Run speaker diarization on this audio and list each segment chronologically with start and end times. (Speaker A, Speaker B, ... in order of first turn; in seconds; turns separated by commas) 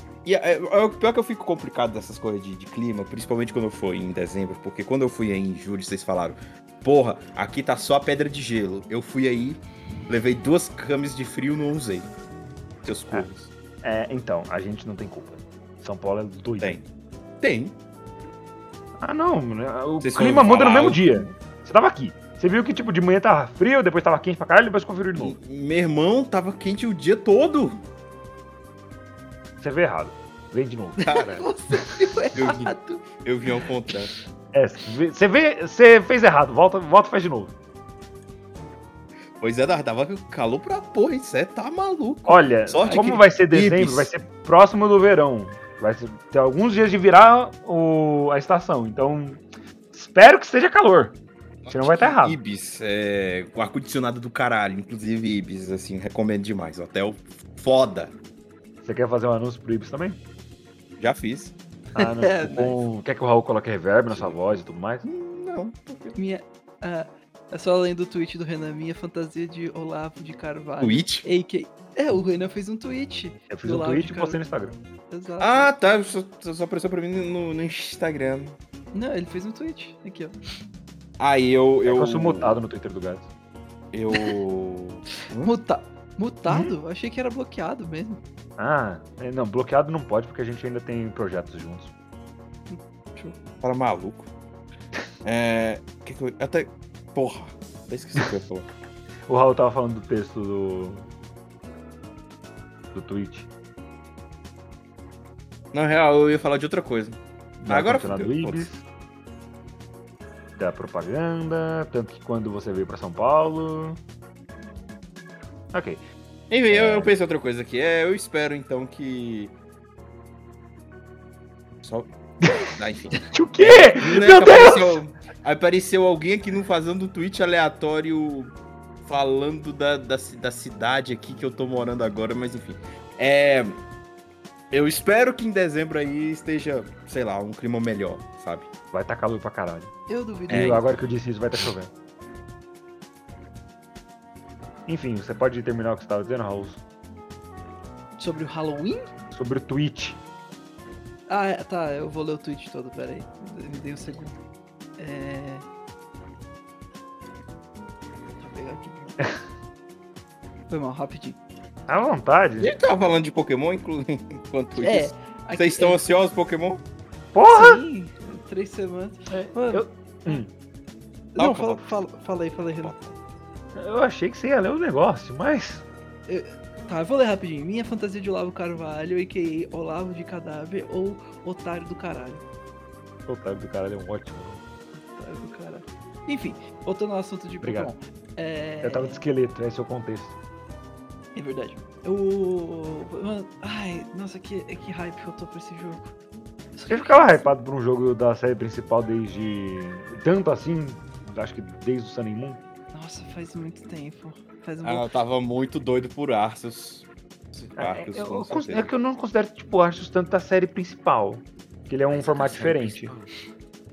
Speaker A: 0.2-12.1, Speaker A: 12.8-13.5, Speaker B: 13.8-16.8, Speaker A: 17.4-17.8, Speaker B: 19.0-25.4, Speaker A: 20.0-21.3, Speaker A: 25.1-27.8, Speaker B: 29.6-31.5, Speaker C: 31.1-33.1, Speaker A: 32.4-34.1, Speaker B: 34.5-37.5, Speaker A: 39.4-44.1, Speaker B: 42.3-49.4, Speaker C: 42.9-43.2, Speaker B: 49.9-51.2, Speaker A: 51.6-58.1, Speaker B: 51.7-52.4, Speaker B: 58.8-60.2, Speaker A: 61.0-61.6, Speaker B: 61.9-65.0, Speaker C: 62.0-62.7, Speaker A: 64.1-64.4, Speaker A: 65.0-66.2, Speaker C: 66.2-74.4, Speaker A: 70.8-71.3, Speaker B: 73.5-74.8, Speaker C: 75.1-75.7, Speaker A: 75.4-78.6, Speaker C: 78.9-80.3, Speaker A: 81.2-82.6, Speaker B: 81.8-83.3, Speaker A: 83.9-85.5, Speaker C: 85.4-88.2, Speaker B: 86.5-86.7, Speaker B: 88.6-91.9, Speaker C: 92.7-93.4, Speaker A: 93.6-94.3, Speaker A: 95.2-98.7, Speaker B: 99.3-101.1, Speaker B: 102.9-103.5, Speaker A: 105.7-108.7, Speaker B: 107.6-108.8, Speaker B: 110.6-114.0, Speaker B: 115.7-116.0, Speaker A: 116.5-119.5, Speaker B: 116.7-117.1, Speaker A: 121.8-133.8, Speaker B: 122.4-125.0, Speaker A: 134.7-138.7, Speaker B: 138.9-139.9, Speaker C: 140.1-140.8, Speaker A: 140.5-141.7, Speaker B: 140.5-141.9, Speaker B: 144.9-146.8, Speaker C: 148.2-149.1, Speaker B: 149.3-150.2, Speaker C: 151.3-154.4, Speaker C: 155.0-155.7, Speaker C: 158.4-159.2, Speaker C: 160.7-161.4, Speaker B: 161.9-162.7, Speaker A: 162.6-166.8, Speaker C: 164.8-166.0, Speaker B: 167.3-167.8, Speaker C: 167.5-170.4, Speaker B: 169.3-170.5, Speaker C: 171.3-172.9, Speaker A: 171.4-172.0, Speaker A: 172.8-173.2, Speaker B: 173.8-175.8, Speaker C: 176.3-182.4, Speaker B: 183.3-184.6, Speaker C: 184.9-189.2, Speaker B: 187.6-187.9, Speaker B: 188.8-190.4, Speaker C: 191.3-196.1, Speaker C: 196.8-197.5, Speaker B: 196.9-202.6, Speaker C: 202.9-205.2, Speaker A: 204.8-208.9, Speaker B: 207.8-213.1, Speaker A: 212.1-213.3